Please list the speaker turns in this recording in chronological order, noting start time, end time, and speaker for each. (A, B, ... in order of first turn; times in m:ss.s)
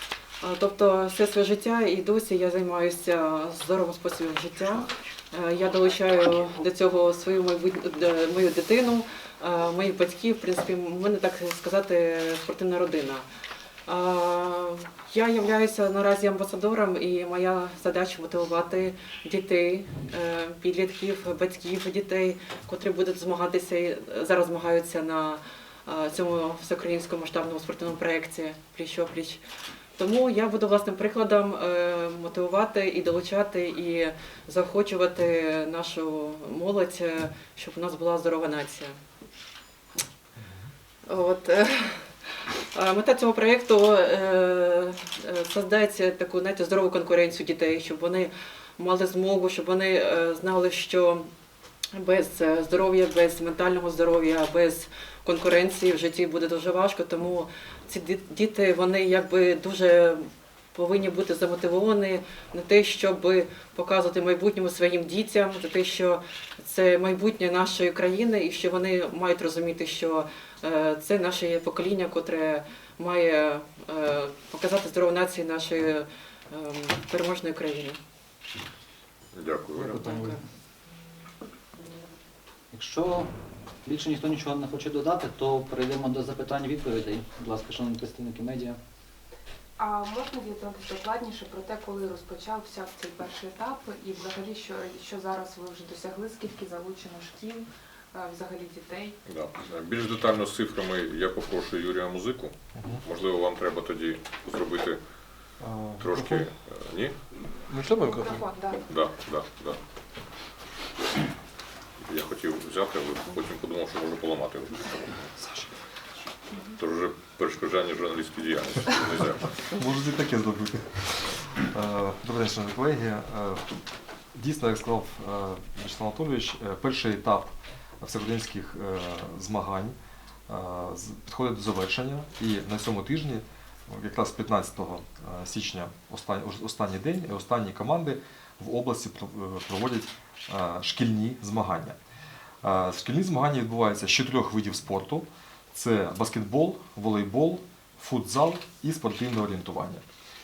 0:00.4-0:13.2 A
0:13.8-0:29.4 A
0:30.0-0:38.9 A
0:41.0-0:51.2 A
0:52.0-1:00.2 A
1:00.7-1:18.0 A
1:19.3-1:20.1 B
1:19.8-1:20.4 C
1:20.0-1:20.4 A
1:22.7-1:23.3 C
1:23.8-1:28.8 C
1:29.8-1:39.2 D
1:39.3-1:45.0 B
1:42.7-1:43.0 E
1:45.6-1:46.5 E
1:46.0-1:47.1 B
1:47.7-1:48.4 E
1:48.0-1:48.8 D
1:48.9-1:49.8 B
1:52.0-1:55.3 B
1:55.4-1:55.7 C
1:56.8-1:59.5 B
1:59.6-2:03.6 E
2:04.3-2:10.0 E
2:10.5-2:22.0 E
2:22.6-2:30.0 E